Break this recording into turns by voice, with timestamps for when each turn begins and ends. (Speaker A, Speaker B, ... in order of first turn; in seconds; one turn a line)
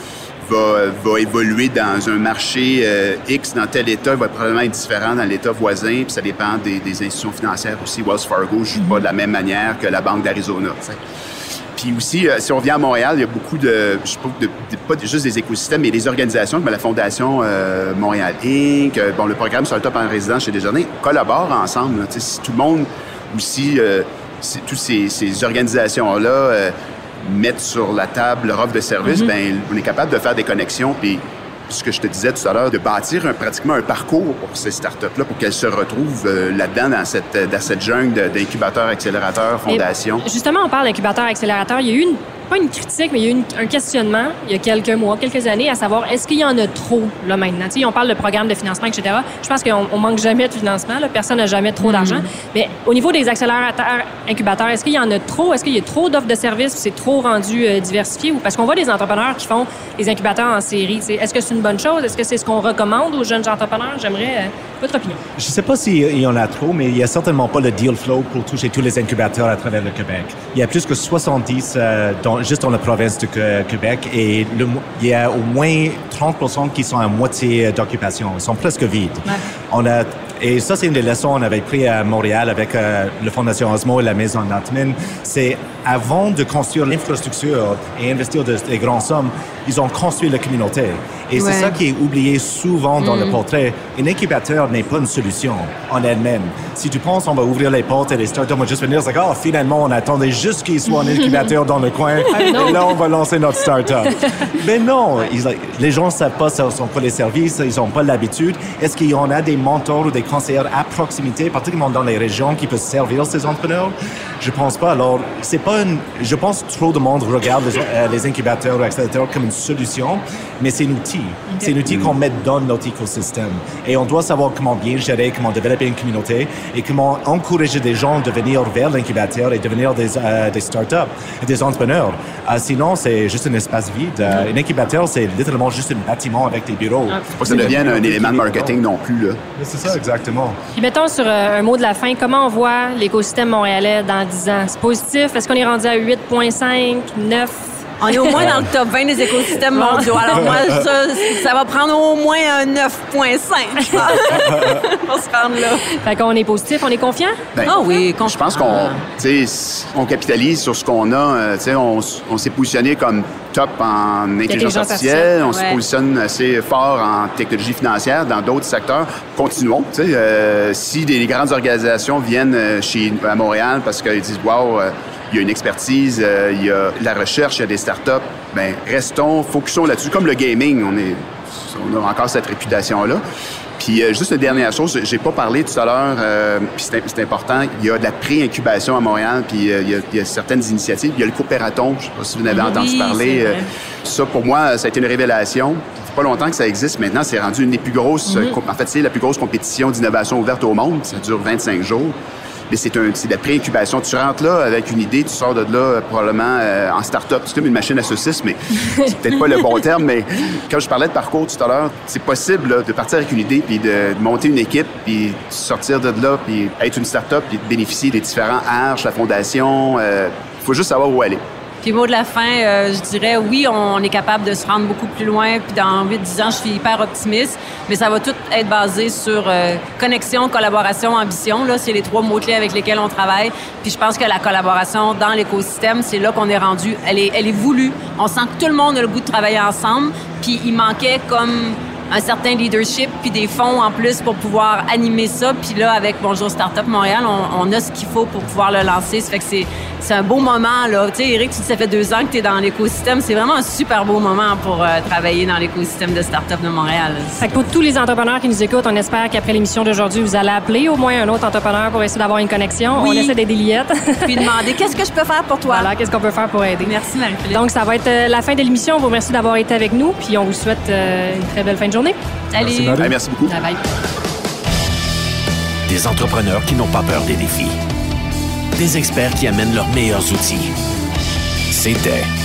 Speaker A: 0.4-11.0
Speaker A: 11.8-40.2
Speaker B: 39.7-65.2
Speaker C: 51.8-52.2
Speaker D: 65.4-138.8
Speaker C: 91.3-91.7
Speaker C: 93.0-93.4
Speaker B: 102.3-102.9
Speaker A: 137.4-139.4
Speaker D: 139.6-140.6
Speaker B: 140.8-148.4
Speaker C: 148.0-155.8
Speaker B: 149.7-150.5
Speaker B: 153.9-154.3
Speaker B: 155.9-157.4
Speaker A: 157.5-183.2
Speaker C: 157.6-159.0
Speaker B: 164.5-165.4
Speaker C: 165.5-165.8
Speaker A: 183.8-202.1
Speaker C: 192.5-193.7
Speaker A: 202.7-221.4
Speaker C: 221.8-257.4
Speaker B: 257.4-264.4
Speaker C: 262.9-263.3
Speaker C: 264.2-265.9
Speaker B: 265.7-266.9
Speaker C: 266.8-267.6
Speaker B: 267.5-272.2
Speaker C: 272.5-273.1
Speaker D: 272.6-273.1
Speaker A: 273.0-273.5
Speaker B: 273.4-273.8
Speaker E: 275.9-277.7
Speaker E: 278.7-280.7
Speaker E: 281.7-282.3